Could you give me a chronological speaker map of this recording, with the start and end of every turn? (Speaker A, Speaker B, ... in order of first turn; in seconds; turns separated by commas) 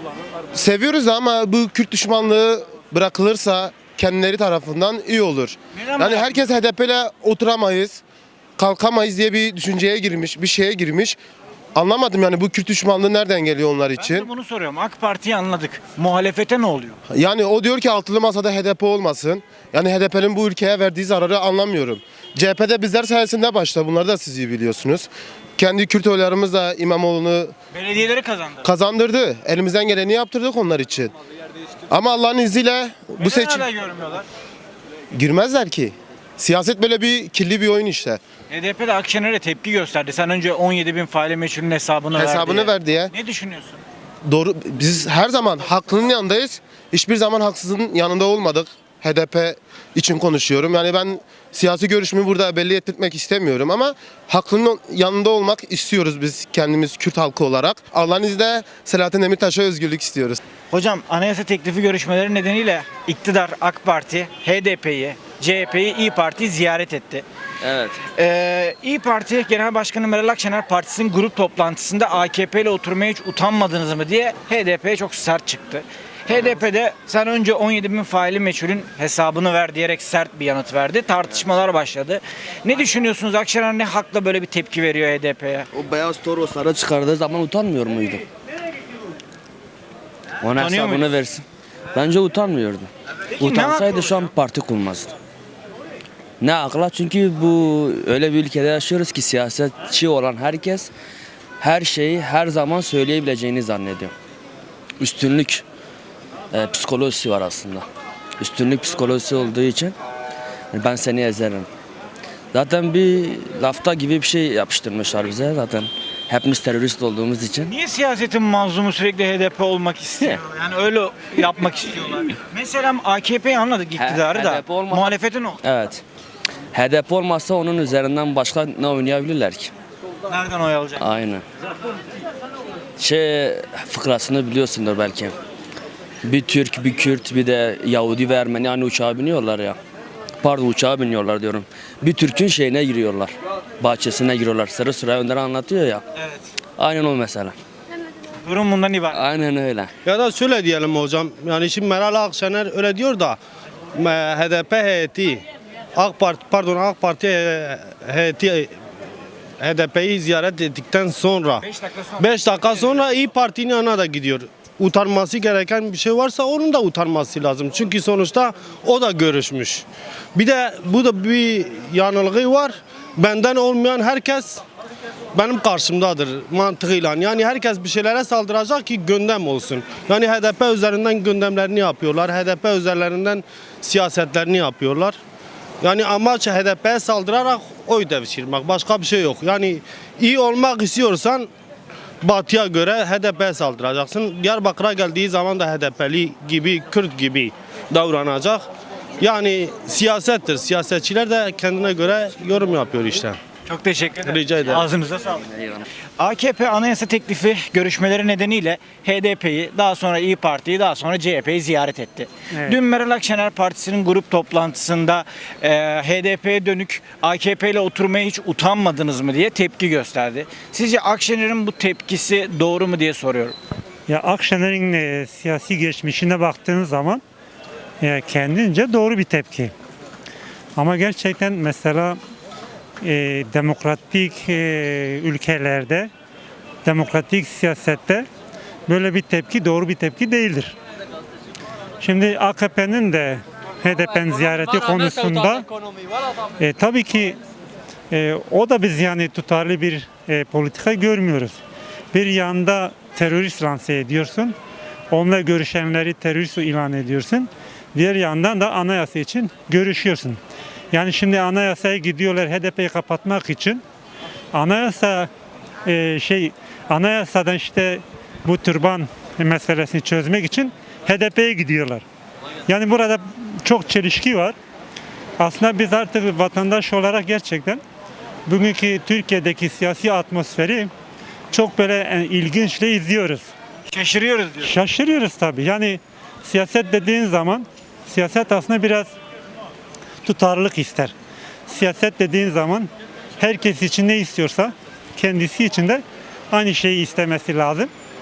Speaker A: 0.5-8.0, Speaker B: 5.7-6.5, Speaker A: 8.6-11.2, Speaker A: 11.7-14.3, Speaker B: 14.0-17.0, Speaker A: 17.1-27.5, Speaker B: 27.7-28.7, Speaker A: 28.6-31.1, Speaker A: 31.9-33.6, Speaker B: 33.2-34.3, Speaker A: 35.1-38.2, Speaker B: 38.5-43.8, Speaker A: 42.1-43.1, Speaker A: 44.2-60.4, Speaker B: 60.7-67.2, Speaker C: 67.6-68.0, Speaker B: 68.2-85.7, Speaker C: 85.7-88.2, Speaker C: 90.4-92.9, Speaker B: 90.5-91.2, Speaker B: 93.4-94.2, Speaker C: 93.4-95.1, Speaker C: 96.4-100.9, Speaker C: 101.6-104.1, Speaker C: 105.0-105.6, Speaker C: 106.5-107.8, Speaker C: 108.4-109.9, Speaker C: 110.7-111.7, Speaker C: 112.5-117.7, Speaker B: 117.6-125.6, Speaker C: 124.0-126.0, Speaker C: 126.7-129.7, Speaker B: 130.3-131.1, Speaker C: 131.0-131.4, Speaker C: 133.0-135.3, Speaker C: 136.2-139.8, Speaker C: 140.4-146.0, Speaker C: 146.8-147.6, Speaker B: 148.4-149.2, Speaker C: 149.1-149.9, Speaker D: 150.1-153.4, Speaker D: 153.9-158.7, Speaker D: 159.6-161.6, Speaker B: 161.6-163.0, Speaker D: 162.2-174.6, Speaker D: 175.3-185.2, Speaker D: 185.8-191.5, Speaker D: 192.2-198.7, Speaker D: 199.2-203.4, Speaker B: 203.7-205.5, Speaker D: 204.2-204.8, Speaker B: 206.2-223.5, Speaker E: 224.1-227.2, Speaker E: 228.0-229.7, Speaker E: 230.8-232.2, Speaker E: 233.0-236.1, Speaker E: 236.8-238.2, Speaker E: 238.9-240.7, Speaker E: 242.0-245.7, Speaker E: 246.6-247.4, Speaker E: 248.1-251.6, Speaker E: 252.1-254.6, Speaker E: 255.1-260.4, Speaker E: 260.9-263.8, Speaker E: 264.5-265.3, Speaker E: 265.8-272.0, Speaker E: 272.7-274.6, Speaker E: 275.4-277.8, Speaker E: 278.5-280.9, Speaker E: 281.5-283.5, Speaker B: 283.9-284.7, Speaker E: 284.6-289.1, Speaker E: 290.2-291.1, Speaker E: 291.7-297.9